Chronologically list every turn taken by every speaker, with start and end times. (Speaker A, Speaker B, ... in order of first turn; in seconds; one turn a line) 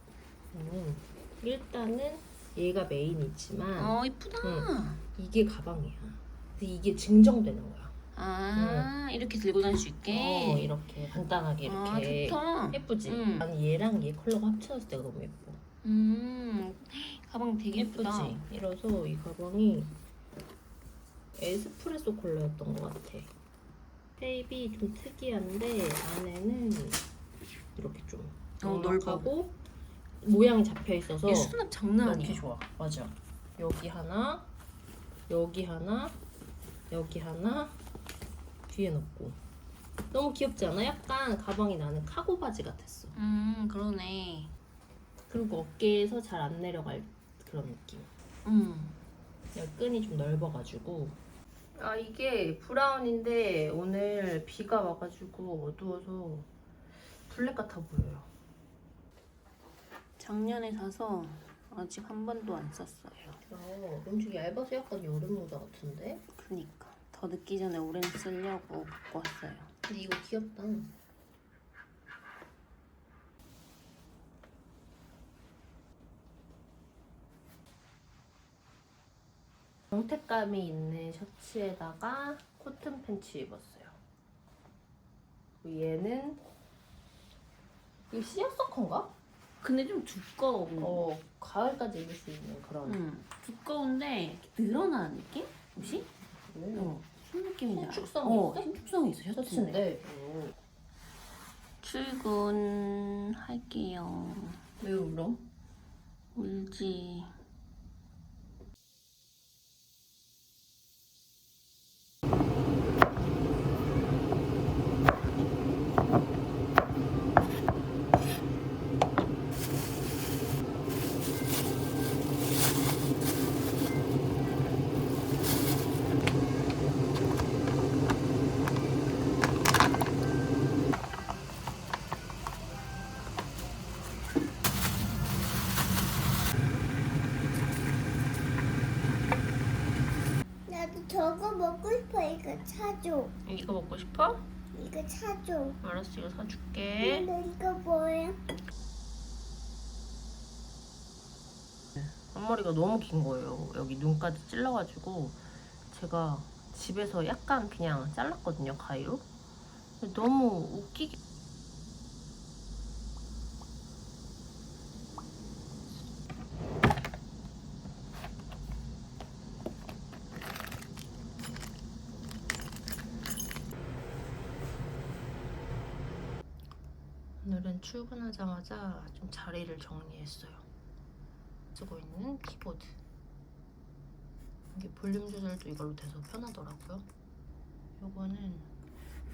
Speaker A: 0.5-7.9
Speaker B: 3.7-5.0
Speaker B: 8.1-10.8
Speaker A: 8.5-8.9
Speaker A: 10.1-15.6
Speaker B: 11.6-13.5
Speaker B: 15.8-18.4
Speaker A: 17.7-20.0
Speaker A: 21.4-23.3
Speaker A: 24.2-27.0
Speaker A: 27.8-29.6
Speaker B: 28.6-29.3
Speaker A: 30.2-34.5
Speaker B: 31.2-32.5
Speaker A: 35.3-36.2
Speaker A: 36.9-37.8
Speaker A: 38.7-39.4
Speaker A: 40.1-43.1
Speaker B: 43.1-44.5
Speaker A: 45.3-48.1
Speaker B: 48.4-49.0
Speaker A: 49.5-51.2
Speaker A: 51.8-56.5
Speaker A: 57.2-58.3
Speaker B: 60.2-63.4
Speaker A: 63.5-66.2
Speaker B: 66.3-69.7
Speaker A: 69.9-70.9
Speaker A: 79.9-84.0
Speaker A: 85.6-86.4
Speaker A: 88.1-89.1
Speaker B: 89.6-91.0
Speaker A: 90.8-93.0
Speaker B: 92.8-96.1
Speaker A: 95.8-97.0
Speaker B: 96.7-99.8
Speaker A: 97.7-98.7
Speaker A: 99.4-100.5
Speaker B: 101.8-104.6
Speaker A: 104.8-105.4
Speaker B: 106.3-107.3
Speaker C: 140.7-143.3
Speaker A: 143.4-144.4
Speaker C: 144.7-145.8
Speaker A: 145.8-147.3
Speaker C: 147.0-148.4
Speaker A: 152.0-159.2
Speaker A: 160.0-161.2
Speaker A: 177.4-180.7
Speaker A: 181.7-183.0
Speaker A: 184.7-187.1
Speaker A: 188.0-188.7